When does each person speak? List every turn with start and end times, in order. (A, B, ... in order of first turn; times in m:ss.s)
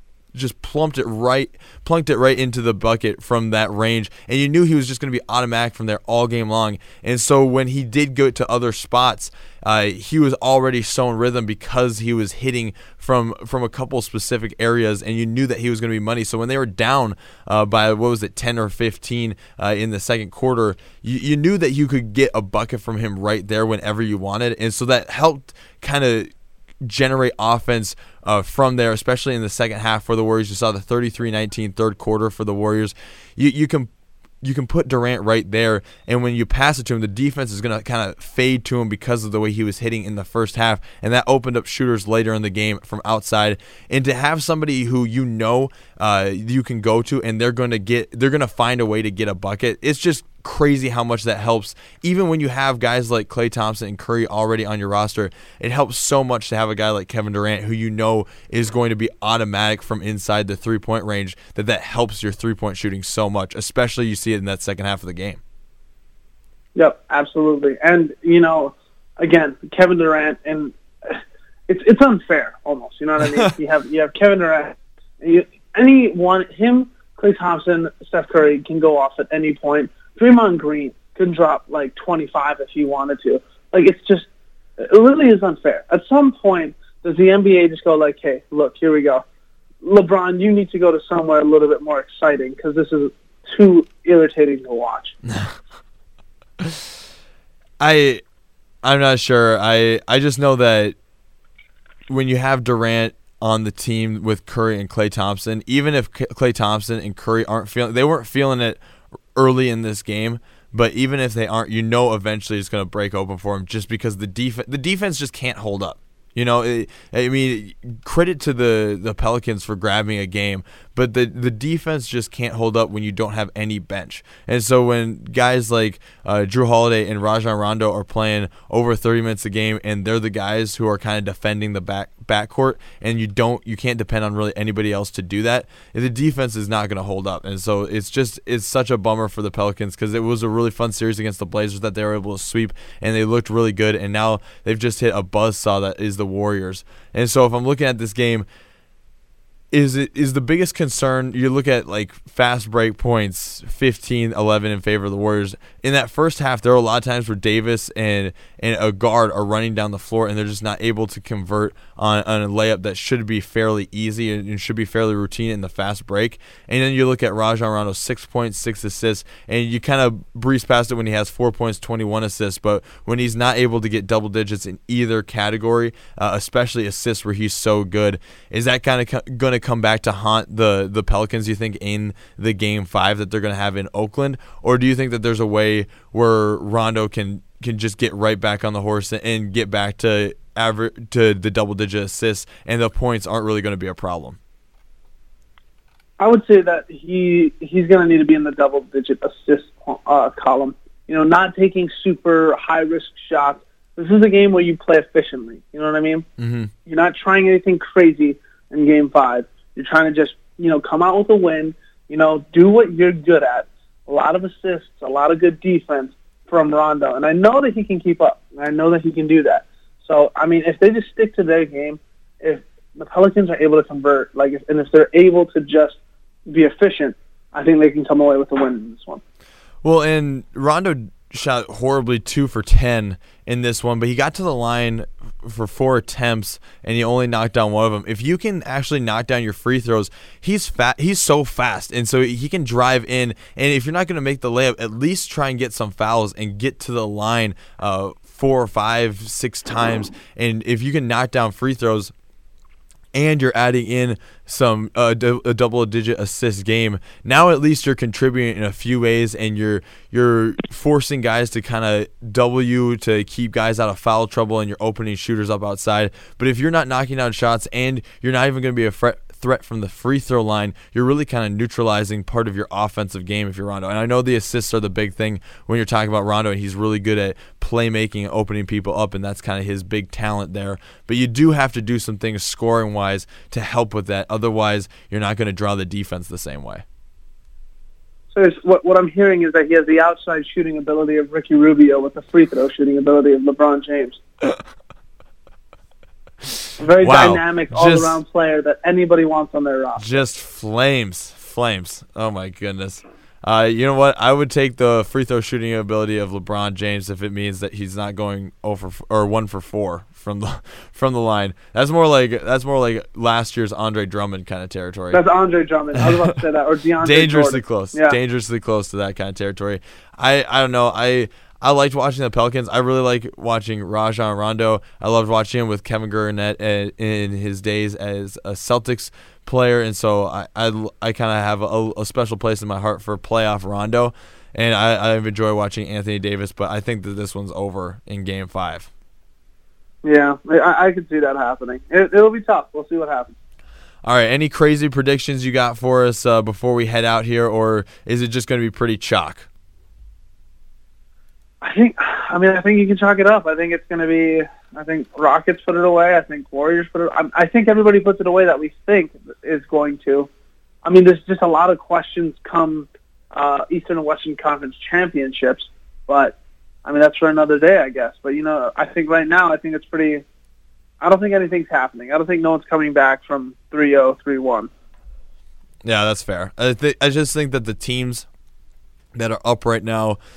0:00.3-0:26.3 A
0:26.8-0:33.9 A
0:34.4-1:05.4 A
1:06.7-1:24.3 B
1:24.8-1:29.2 B
1:29.8-1:35.1 B
1:35.3-1:35.5 A
1:37.8-1:38.2 A
1:38.8-1:41.0 A
1:42.1-1:48.8 A
1:49.3-2:28.4 A
2:29.7-3:14.4 A
3:16.2-3:26.2 B
3:26.4-3:26.7 A
3:26.8-3:49.2 B
3:49.8-4:12.1 A
4:13.1-4:46.8 A
4:48.3-4:54.2 B
4:56.8-5:00.0 B
4:57.0-4:58.2 A
5:00.0-5:15.2 A
5:15.1-5:18.2 B
5:17.0-5:38.9 A
5:40.0-5:43.3 B
5:44.0-5:49.5 A
5:51.6-6:00.3 B
6:00.8-6:10.2 B
6:11.0-6:14.7 B
6:15.8-6:18.3 A
6:19.1-6:20.2 A